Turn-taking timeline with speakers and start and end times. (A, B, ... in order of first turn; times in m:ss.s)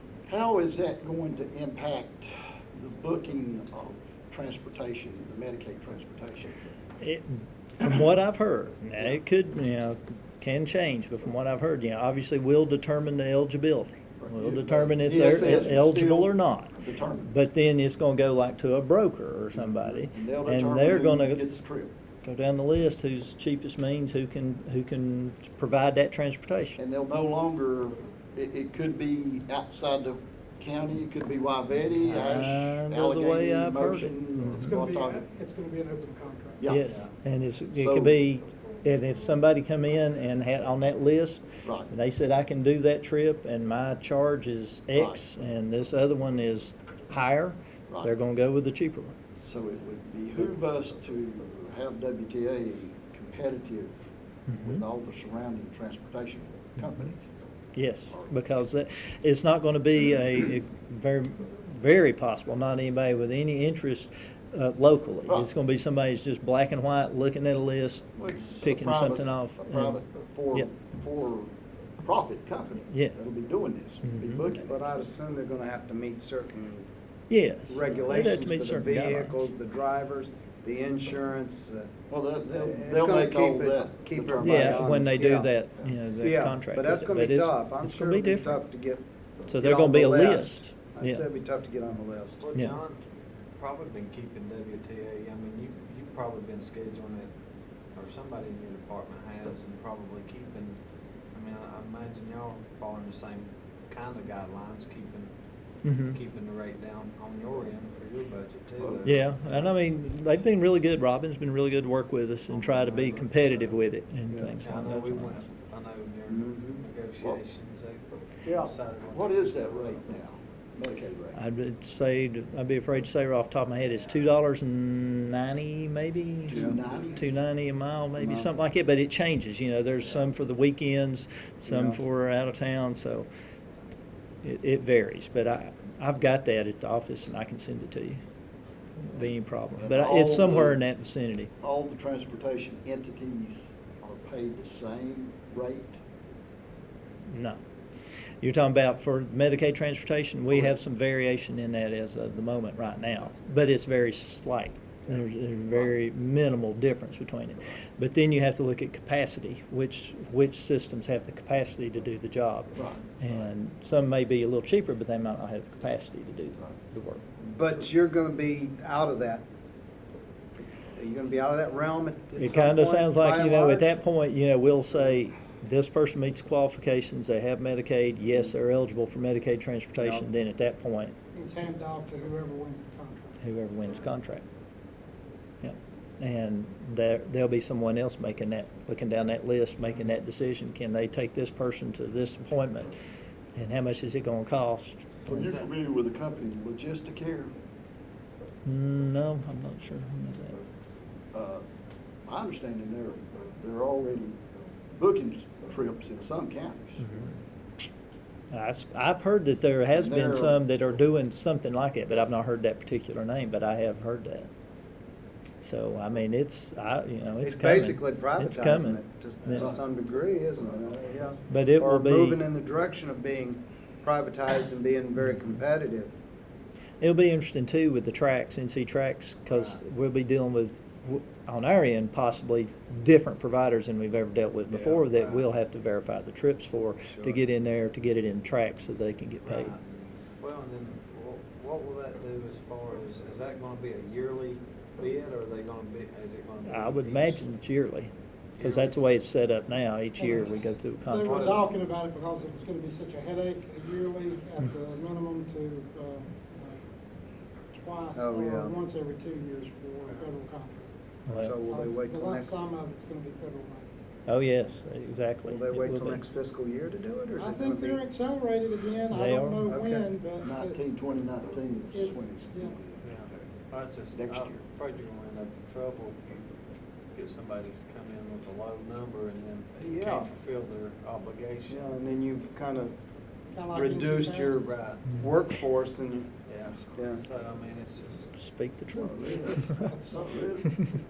0:00.3-0:06.6 A
0:07.0-0:21.4 B
0:14.2-0:17.3 A
0:19.5-0:21.9 A
0:22.2-0:26.8 B
0:26.8-0:35.2 A
0:32.0-0:34.6 B
0:34.6-0:36.6 C
0:36.6-0:37.0 A
0:36.6-0:49.1 B
0:37.7-0:38.2 A
0:41.6-0:41.9 A
0:44.9-0:45.2 A
0:49.4-0:53.9 A
0:54.5-0:54.8 B
0:54.6-0:57.3 A
0:57.8-1:10.0 B
1:08.2-1:11.5 A
1:12.0-1:14.9 A
1:12.9-1:13.2 B
1:14.0-1:14.6 B
1:14.7-1:16.9 D
1:17.3-1:19.4 B
1:17.7-1:21.9 D
1:22.1-1:25.2 A
1:22.5-1:25.5 D
1:24.4-1:28.6 B
1:26.2-1:32.4 D
1:29.5-1:31.2 B
1:32.4-1:33.0 E
1:33.6-1:37.3 E
1:37.9-1:40.8 E
1:41.3-1:45.3 E
1:45.8-1:46.2 B
1:46.1-1:49.7 E
1:49.0-1:55.4 B
1:52.7-1:53.2 E
1:54.3-1:54.5 D
1:54.6-2:00.0 E
1:56.3-1:56.8 D
1:58.4-1:58.7 D
1:59.1-2:01.4 A
2:01.3-2:13.3 B
2:06.5-2:07.2 A
2:08.2-2:08.5 D
2:11.7-2:12.0 D
2:14.4-2:18.2 B
2:19.0-2:21.5 B
2:19.8-2:20.8 A
2:21.6-2:26.0 A
2:27.3-2:27.6 B
2:28.4-2:47.2 B
2:42.7-2:43.0 A
2:47.5-2:49.4 D
2:50.9-2:53.9 D
2:52.4-3:01.1 B
3:00.0-3:00.2 D
3:01.3-3:03.4 C
3:03.4-3:04.4 B
3:05.6-3:12.9 B
3:13.5-3:15.4 B
3:15.2-3:17.5 A
3:15.3-3:15.7 E
3:18.6-3:20.6 B
3:21.3-3:21.6 A
3:22.2-3:24.4 A
3:24.9-3:27.1 A
3:27.0-3:27.3 B
3:28.5-3:34.5 B
3:29.9-3:30.6 A
3:35.6-3:39.7 B
3:37.4-3:46.1 D
3:39.5-3:39.8 A
3:40.7-3:41.2 A
3:41.5-3:42.4 B
3:47.0-3:59.7 B
3:49.5-3:49.8 E
3:55.0-3:55.5 E
3:59.4-4:07.4 E
4:06.6-4:11.5 B
4:08.6-4:09.0 E
4:10.2-4:16.8 C
4:11.2-4:11.7 E
4:17.8-4:23.9 C
4:18.1-4:18.7 D
4:21.3-4:21.6 B
4:21.4-4:22.6 D
4:24.3-4:26.2 B
4:25.5-4:28.0 D
4:27.4-4:30.8 C
4:29.1-4:29.6 B
4:29.7-4:30.1 D
4:30.4-4:33.5 A
4:31.9-4:32.7 C
4:33.0-4:36.4 E
4:34.1-4:34.6 A
4:37.1-4:42.0 E
4:39.8-4:40.3 D
4:41.7-4:43.0 D
4:43.5-4:44.6 C
4:43.7-4:46.3 D
4:44.6-4:45.3 E
4:46.4-4:48.3 E
4:47.0-4:47.2 D
4:48.4-4:49.9 B
4:49.0-4:50.8 A
4:49.8-4:50.2 C